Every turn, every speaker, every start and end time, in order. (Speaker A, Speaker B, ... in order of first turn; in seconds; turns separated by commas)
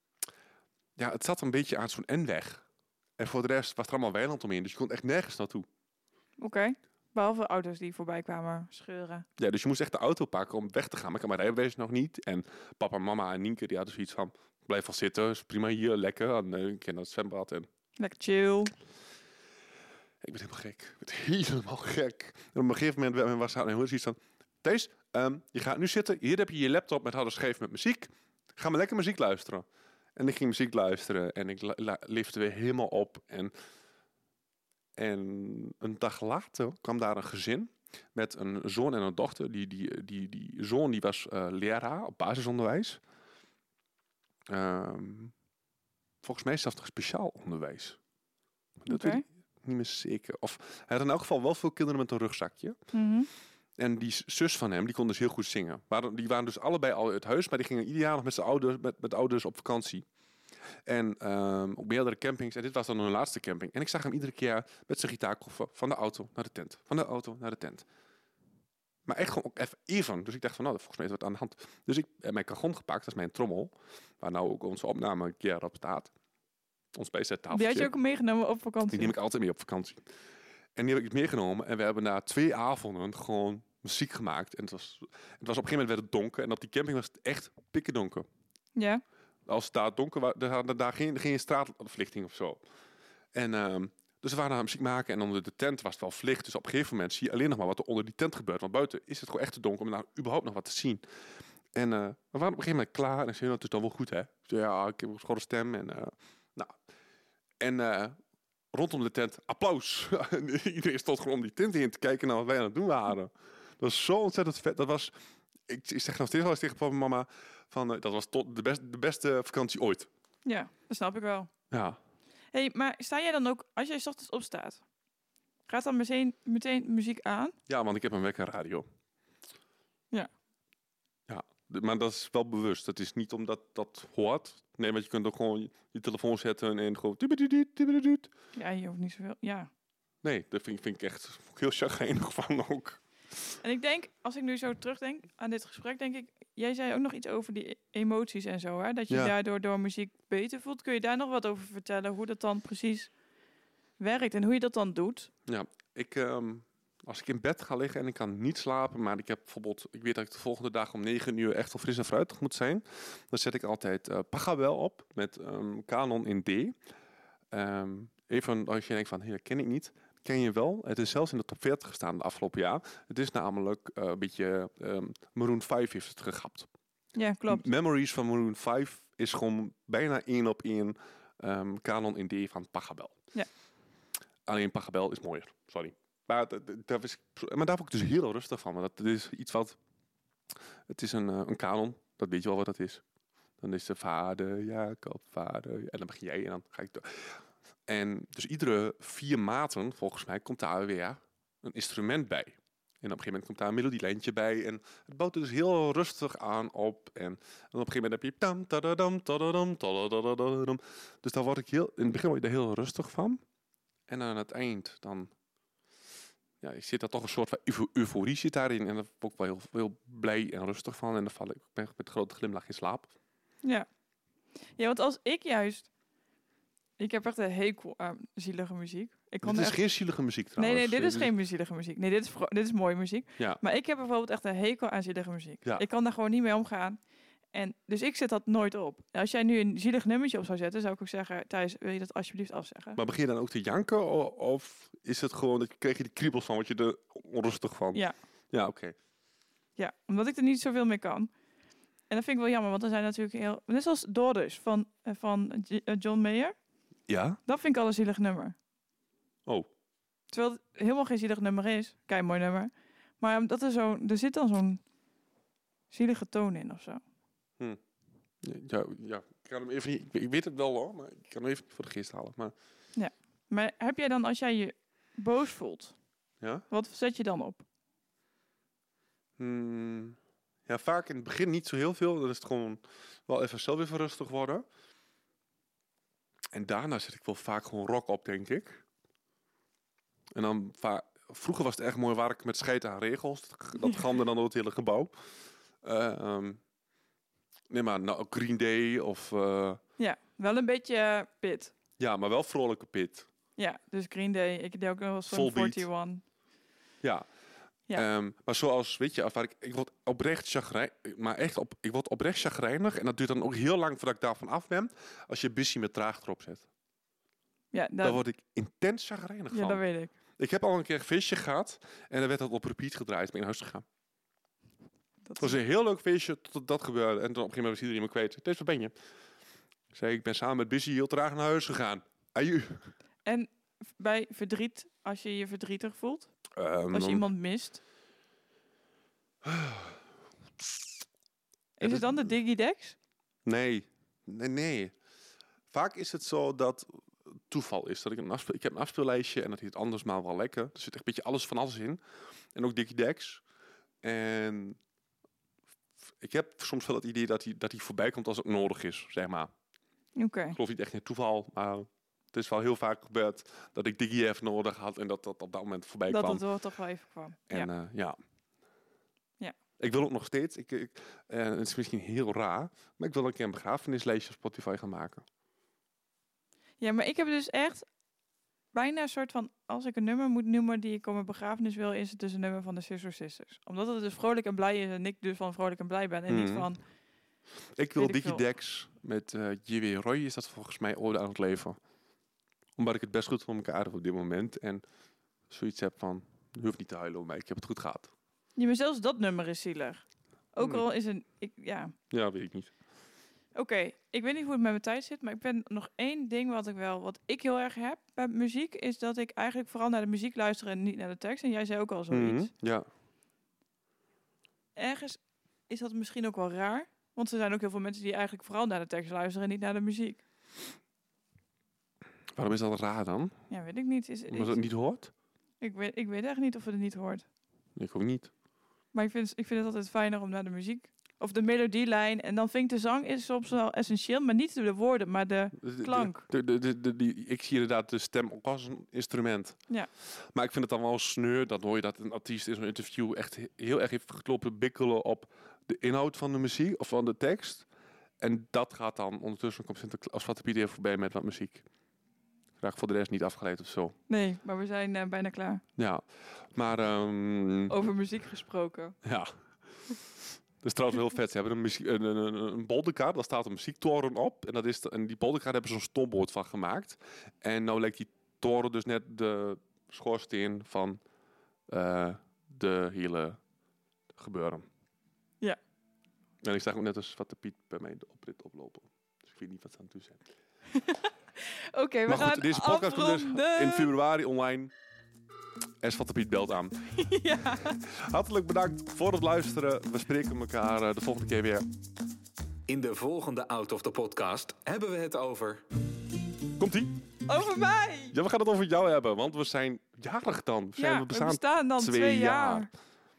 Speaker A: 1.0-2.6, Speaker A: 3.2-5.7, Speaker B: 6.4-9.3, Speaker A: 9.4-17.7, Speaker B: 18.0-18.7, Speaker A: 20.2-29.6, Speaker A: 30.2-33.5, Speaker A: 35.0-43.0, Speaker A: 44.5-45.3, Speaker A: 46.2-48.0, Speaker A: 48.8-52.8, Speaker B: 48.9-49.2, Speaker B: 52.9-53.3, Speaker A: 53.8-60.0, Speaker A: 60.9-67.8, Speaker A: 69.1-76.1, Speaker A: 77.0-77.9, Speaker B: 77.5-79.2, Speaker A: 78.9-80.0, Speaker A: 80.8-88.3, Speaker B: 88.8-89.0, Speaker A: 89.5-92.6, Speaker A: 93.3-101.0, Speaker A: 101.7-106.8, Speaker A: 107.6-108.2, Speaker A: 108.7-115.1, Speaker A: 115.7-120.1, Speaker B: 120.5-121.5, Speaker A: 121.7-122.0, Speaker B: 122.5-124.8, Speaker B: 125.7-127.5, Speaker A: 127.7-128.8, Speaker A: 131.3-138.3, Speaker B: 138.5-139.7, Speaker A: 140.2-143.0, Speaker B: 143.6-153.1, Speaker B: 154.0-155.3, Speaker A: 155.5-166.7, Speaker A: 167.5-176.7, Speaker B: 177.1-177.7, Speaker A: 177.5-183.2, Speaker A: 184.5-189.8, Speaker A: 190.9-193.0, Speaker A: 193.6-197.3, Speaker A: 197.9-213.4, Speaker A: 214.1-215.3, Speaker A: 216.6-223.1, Speaker B: 223.6-223.9, Speaker B: 224.8-225.9, Speaker B: 227.0-229.8, Speaker A: 229.4-231.3, Speaker B: 230.6-237.0, Speaker B: 237.5-243.0, Speaker A: 243.0-249.0, Speaker B: 249.8-251.3, Speaker B: 252.1-256.6, Speaker A: 257.1-257.4, Speaker B: 257.5-258.6, Speaker B: 260.3-264.8, Speaker B: 265.9-267.0, Speaker A: 268.4-272.5, Speaker B: 273.0-275.9, Speaker B: 276.7-277.6, Speaker A: 279.4-284.6, Speaker A: 286.5-288.8, Speaker A: 290.4-295.1, Speaker A: 295.8-296.6, Speaker A: 297.7-299.8, Speaker B: 300.0-301.7, Speaker A: 302.0-303.3, Speaker B: 303.6-306.2, Speaker A: 305.3-305.9, Speaker A: 307.9-316.7, Speaker B: 317.7-318.2, Speaker A: 318.0-319.8, Speaker B: 319.5-320.1, Speaker A: 320.4-323.9, Speaker B: 325.2-325.6, Speaker A: 325.4-328.9, Speaker A: 329.9-332.9, Speaker B: 333.2-336.3, Speaker A: 336.6-337.3, Speaker B: 336.9-337.8, Speaker A: 339.4-339.9, Speaker B: 341.8-343.0, Speaker A: 341.8-342.3, Speaker A: 343.5-344.9, Speaker A: 345.7-352.0, Speaker A: 352.6-353.4, Speaker A: 354.0-354.8, Speaker A: 356.2-359.5, Speaker B: 360.2-360.6, Speaker A: 360.5-366.4, Speaker B: 366.1-367.7, Speaker A: 367.5-368.2, Speaker A: 369.8-375.2, Speaker B: 376.8-377.9, Speaker B: 378.7-386.8, Speaker A: 386.3-386.7, Speaker A: 387.8-391.8, Speaker B: 388.0-388.4, Speaker A: 392.8-394.8, Speaker A: 395.5-398.1, Speaker B: 398.6-401.9, Speaker A: 400.6-400.9, Speaker A: 402.1-402.7, Speaker B: 403.6-412.5, Speaker A: 412.1-412.9, Speaker B: 414.8-420.2, Speaker A: 422.4-423.4, Speaker B: 423.5-424.6, Speaker A: 424.3-425.1, Speaker B: 425.6-427.2, Speaker A: 427.8-428.3, Speaker B: 428.9-436.2, Speaker A: 435.6-439.6, Speaker A: 440.3-447.7, Speaker A: 448.2-451.6, Speaker A: 452.6-454.0, Speaker B: 454.1-455.6, Speaker A: 455.8-456.0, Speaker A: 456.5-457.8, Speaker B: 457.7-459.0, Speaker A: 459.0-459.3, Speaker A: 460.6-471.0, Speaker A: 471.7-473.4, Speaker A: 474.1-474.7, Speaker A: 476.4-480.2, Speaker B: 480.7-483.9, Speaker A: 482.1-484.7, Speaker A: 485.8-486.9, Speaker B: 487.0-487.8, Speaker A: 487.6-491.7, Speaker C: 492.7-495.6, Speaker A: 496.6-496.9, Speaker B: 497.3-498.1, Speaker A: 498.1-502.7, Speaker B: 500.8-502.7